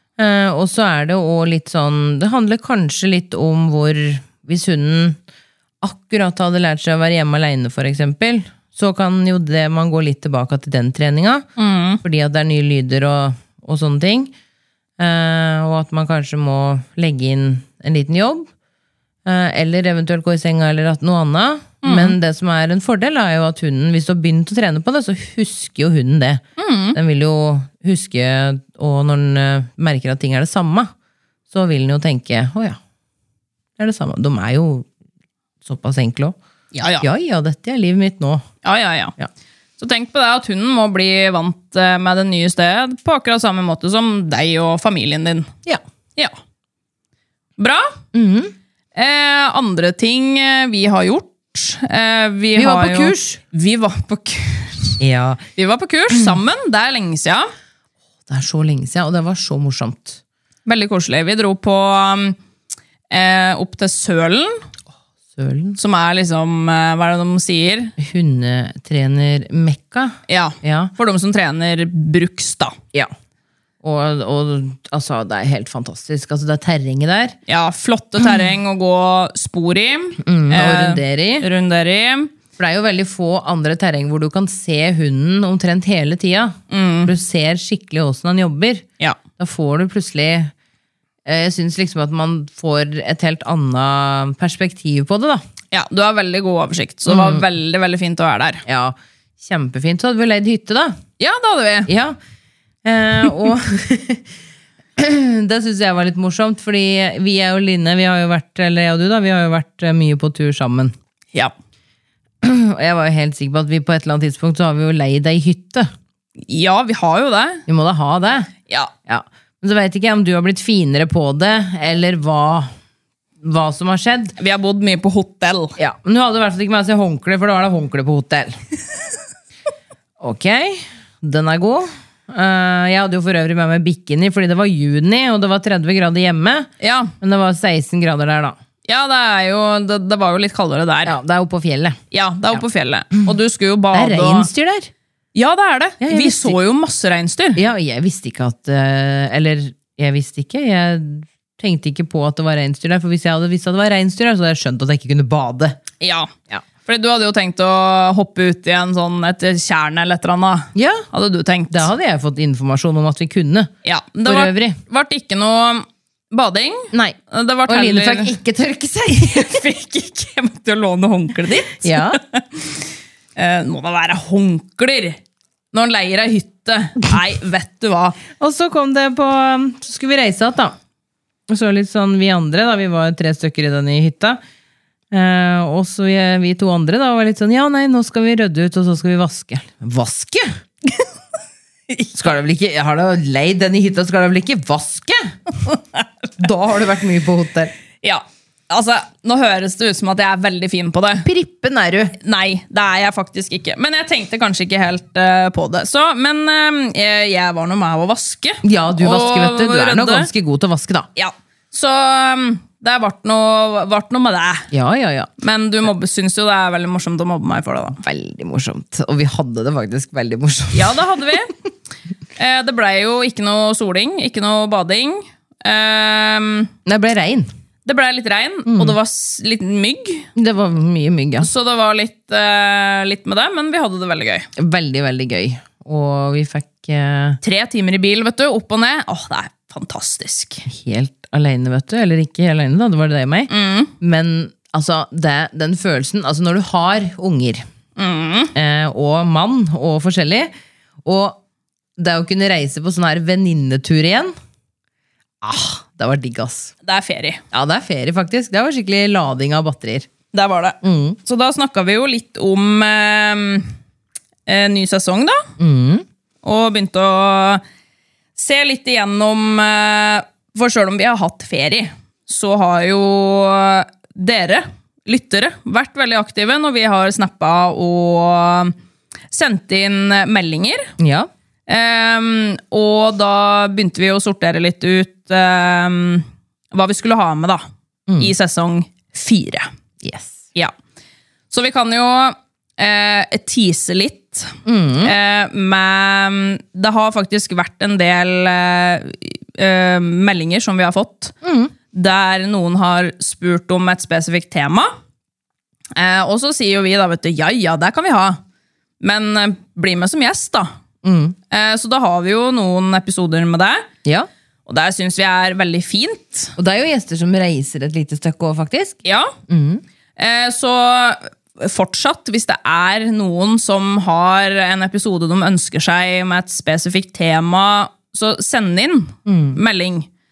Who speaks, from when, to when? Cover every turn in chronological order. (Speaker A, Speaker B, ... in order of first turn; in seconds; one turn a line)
Speaker A: 0.2-5.2
Speaker A: 5.8-11.5
Speaker B: 11.6-12.0
Speaker A: 12.0-14.3
Speaker A: 15.0-18.5
Speaker A: 19.2-30.9
Speaker B: 21.8-22.1
Speaker B: 26.6-27.0
Speaker A: 31.5-32.8
Speaker A: 33.8-34.9
Speaker A: 35.6-36.4
Speaker B: 36.7-37.1
Speaker A: 37.0-38.5
Speaker B: 38.6-39.1
Speaker B: 39.8-45.5
Speaker B: 47.6-48.0
Speaker A: 48.1-48.5
Speaker B: 49.0-55.0
Speaker A: 52.5-53.4
Speaker A: 55.0-55.4
Speaker B: 55.6-57.5
Speaker A: 58.3-60.2
Speaker B: 60.6-62.4
Speaker B: 63.1-64.6
Speaker A: 65.3-65.8
Speaker B: 65.8-67.9
Speaker A: 68.0-70.9
Speaker B: 70.3-72.8
Speaker A: 73.8-77.3
Speaker B: 77.5-82.3
Speaker A: 80.2-81.5
Speaker A: 82.6-88.8
Speaker B: 86.7-87.1
Speaker A: 89.4-90.5
Speaker A: 91.2-95.4
Speaker B: 95.7-98.6
Speaker A: 97.1-97.4
Speaker A: 98.7-101.0
Speaker B: 101.2-101.9
Speaker A: 101.8-102.2
Speaker A: 102.8-104.3
Speaker A: 105.0-110.9
Speaker A: 112.4-115.9
Speaker B: 116.5-117.6
Speaker A: 117.7-118.5
Speaker A: 119.1-122.7
Speaker A: 123.4-124.3
Speaker B: 124.4-125.8
Speaker A: 125.8-128.6
Speaker A: 130.2-136.7
Speaker B: 136.8-137.1
Speaker A: 137.2-138.6
Speaker B: 138.8-141.2
Speaker A: 141.0-142.0
Speaker B: 142.1-144.5
Speaker A: 143.9-144.9
Speaker B: 145.3-147.6
Speaker A: 146.0-146.6
Speaker A: 147.5-155.8
Speaker B: 156.0-156.3
Speaker B: 156.8-161.9
Speaker A: 160.7-161.1
Speaker A: 161.7-163.7
Speaker B: 163.8-168.3
Speaker A: 164.2-164.8
Speaker A: 166.9-169.6
Speaker B: 169.1-172.6
Speaker A: 171.8-172.2
Speaker B: 173.3-175.2
Speaker B: 175.7-178.2
Speaker A: 178.4-180.8
Speaker A: 181.5-184.4
Speaker A: 185.1-190.9
Speaker A: 192.1-195.8
Speaker A: 196.4-197.7
Speaker B: 198.0-201.3
Speaker A: 201.2-202.2
Speaker B: 202.2-210.3
Speaker A: 208.6-211.1
Speaker B: 211.2-214.7
Speaker A: 214.7-215.3
Speaker B: 215.4-218.0
Speaker A: 218.0-221.0
Speaker B: 220.7-221.5
Speaker B: 222.3-226.7
Speaker A: 226.8-227.5
Speaker B: 227.8-230.3
Speaker A: 228.7-228.9
Speaker A: 230.3-231.5
Speaker B: 231.4-234.5
Speaker A: 234.6-237.4
Speaker B: 237.4-240.6
Speaker A: 240.7-243.5
Speaker B: 243.5-243.9
Speaker A: 244.0-247.6
Speaker B: 247.9-248.5
Speaker A: 248.5-250.5
Speaker A: 251.0-251.4
Speaker A: 252.0-254.3
Speaker A: 255.4-256.7
Speaker B: 256.8-257.4
Speaker A: 257.5-260.1
Speaker B: 260.3-263.7
Speaker A: 260.8-261.2
Speaker B: 264.5-265.5
Speaker A: 265.6-266.0
Speaker B: 266.4-267.6
Speaker B: 268.4-278.7
Speaker B: 279.3-280.9
Speaker A: 281.0-281.3
Speaker B: 281.7-287.6
Speaker A: 288.1-288.3
Speaker B: 288.2-289.7
Speaker A: 290.0-290.4
Speaker B: 291.5-301.3
Speaker A: 294.6-295.1
Speaker A: 301.4-301.7
Speaker B: 301.9-304.9
Speaker B: 305.9-308.4
Speaker B: 309.0-310.7
Speaker A: 311.0-311.4
Speaker B: 311.5-313.9
Speaker B: 314.7-316.5
Speaker A: 316.6-319.8
Speaker B: 319.0-319.3
Speaker B: 320.2-330.1
Speaker A: 329.2-329.6